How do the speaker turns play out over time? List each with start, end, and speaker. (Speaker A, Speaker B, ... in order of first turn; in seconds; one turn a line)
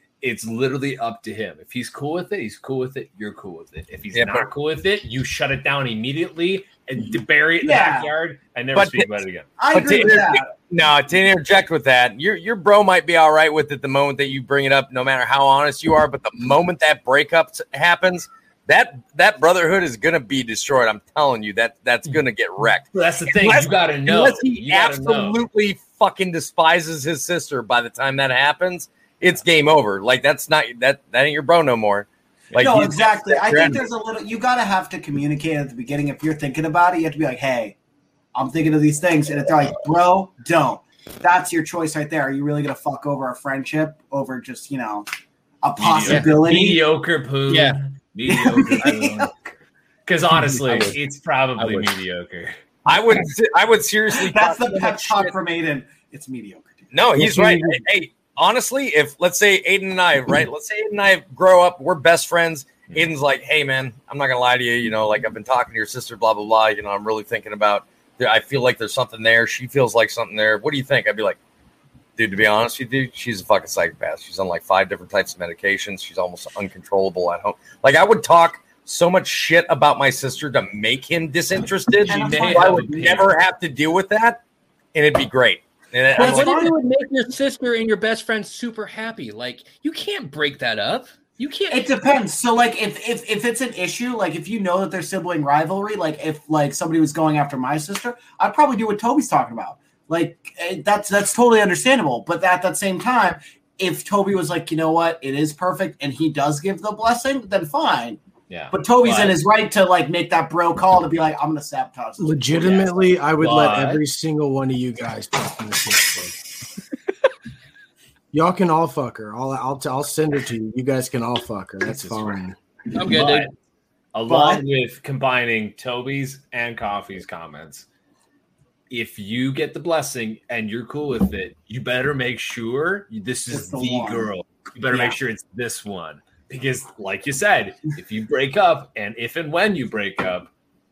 Speaker A: 0.2-9.8
Speaker B: 4.1-4.5
Speaker C: 7.6-8.1
Speaker B: 8.7-9.1
Speaker C: 9.6-10.5
Speaker B: 9.7-33.9
Speaker A: 22.9-25.4
Speaker C: 32.6-37.8
Speaker C: 38.3-45.1
Speaker C: 45.6-46.9
Speaker A: 45.8-49.3
Speaker D: 46.0-46.5
Speaker D: 47.5-47.8
Speaker C: 48.3-49.3
Speaker A: 50.0-52.5
Speaker D: 50.7-50.9
Speaker D: 51.6-51.9
Speaker B: 52.9-55.4
Speaker C: 54.1-56.9
Speaker B: 56.9-71.4
Speaker E: 57.2-57.8
Speaker B: 72.2-84.4
Speaker A: 82.0-83.3
Speaker C: 82.1-83.2
Speaker B: 84.9-86.7
Speaker C: 86.1-86.8
Speaker D: 86.1-91.9
Speaker C: 91.7-108.2
Speaker A: 108.5-109.4
Speaker C: 108.7-112.7
Speaker E: 112.2-116.4
Speaker A: 112.6-114.0
Speaker E: 118.3-122.6
Speaker A: 121.9-122.4
Speaker D: 122.9-123.5
Speaker A: 123.0-123.5
Speaker A: 124.1-127.8
Speaker C: 124.3-124.6
Speaker A: 128.9-140.5
Speaker C: 133.5-134.3
Speaker C: 134.9-135.2